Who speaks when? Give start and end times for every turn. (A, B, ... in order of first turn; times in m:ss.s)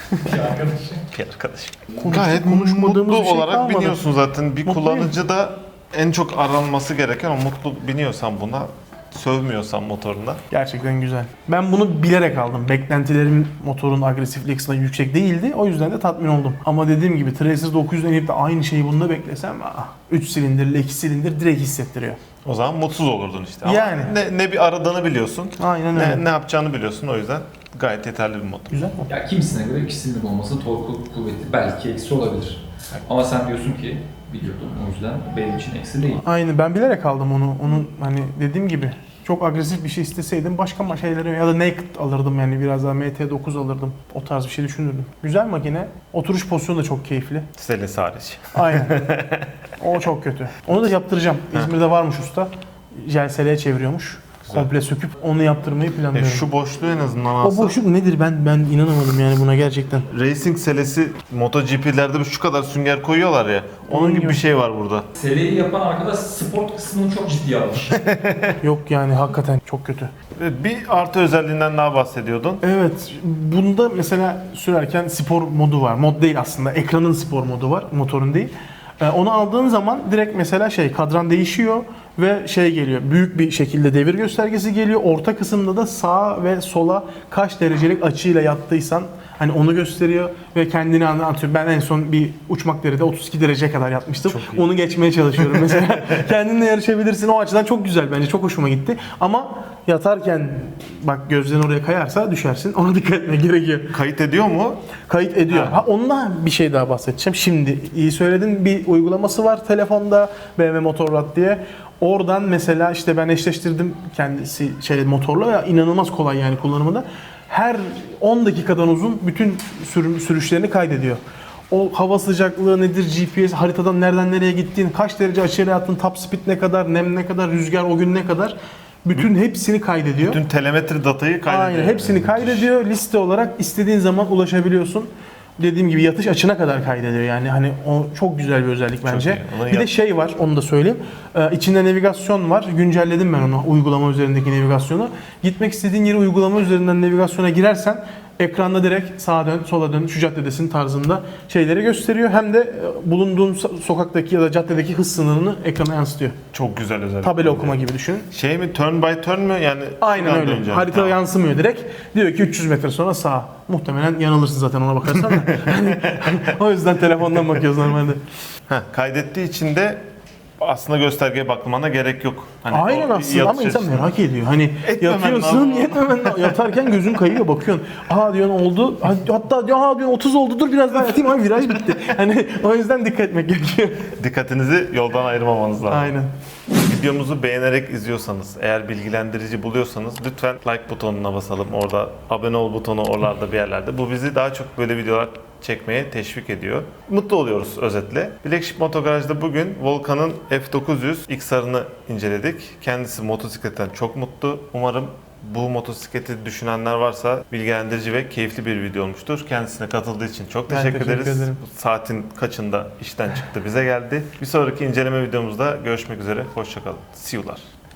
0:00.2-0:01.0 A
0:01.1-0:10.4 B
0:02.0-0:04.1 C
0:04.6-0:05.1 C
0:10.5-0:22.2 C
0:22.4-0:28.7 B
0:23.6-0:24.1 C
0:25.6-0:26.2 C
0:28.7-0:29.1 C
0:29.1-0:36.2 A
0:36.2-0:47.5 C
0:47.6-0:49.7 B
0:48.5-0:49.2 C
0:49.8-0:56.5 C
0:56.1-0:57.8 B
0:57.4-1:00.1 C
1:00.1-1:05.1 B
1:03.9-1:04.4 C
1:05.2-1:08.0 A
1:07.9-1:08.6 B
1:08.6-1:10.1 C
1:10.4-1:12.6 B
1:12.6-1:44.0 C
1:34.3-1:34.6 B
1:43.9-1:44.8 B
1:45.1-2:10.4 C
1:45.5-1:45.8 B
2:10.2-2:12.7 B
2:11.5-2:36.4 C
2:19.0-2:19.9 B
2:36.5-2:41.2 B
2:37.2-2:38.3 C
2:40.0-2:48.2 C
2:45.4-2:46.4 B
2:48.7-2:50.0 B
2:50.6-2:54.1 B
2:52.7-3:04.1 C
2:54.8-2:56.8 B
3:04.2-3:06.1 B
3:05.9-3:06.3 C
3:06.8-3:37.6 B
3:30.7-3:31.6 C